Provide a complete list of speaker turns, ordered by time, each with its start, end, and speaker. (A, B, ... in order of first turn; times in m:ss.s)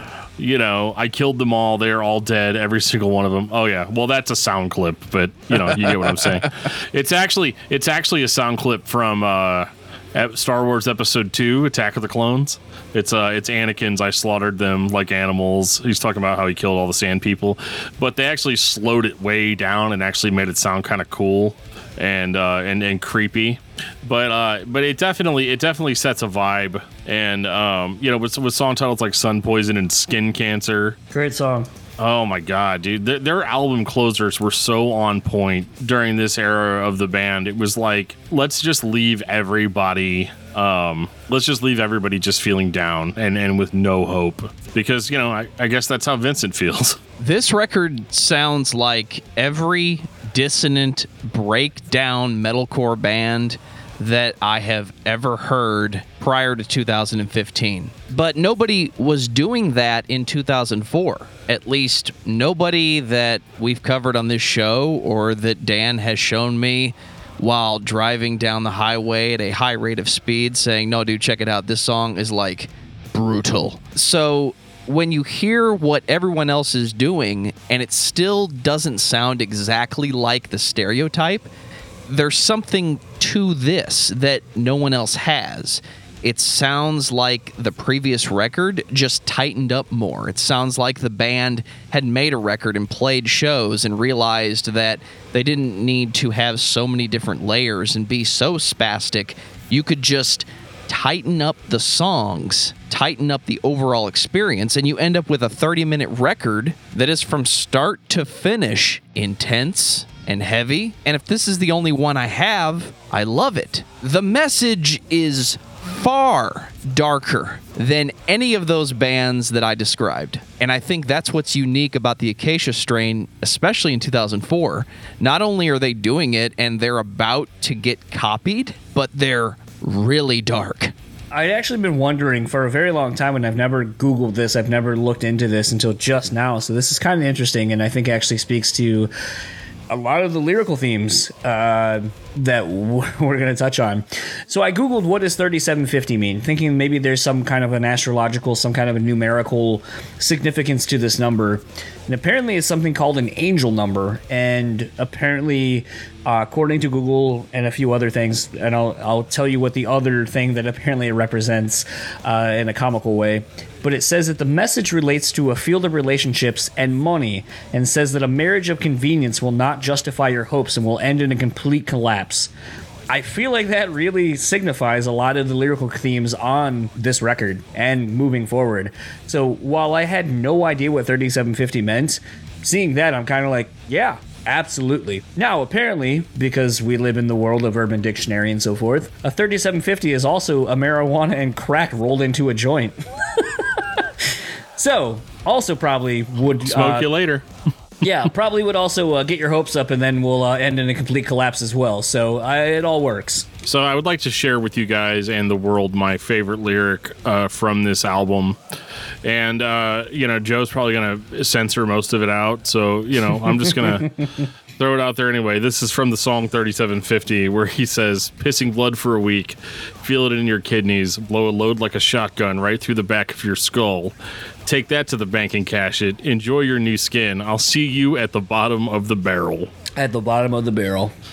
0:00.4-0:31.0 A
0:31.1-0:31.7 B
0:32.0-0:47.0 A
0:47.2-1:21.5 C
1:22.1-2:10.9 C
2:11.3-2:19.1 B
2:19.9-2:52.5 B
2:53.1-3:17.1 B
3:16.6-3:17.4 A
3:18.0-3:23.5 B
3:23.6-3:28.6 A
3:29.2-3:44.2 A
3:44.7-3:49.7 A
3:50.0-3:51.1 B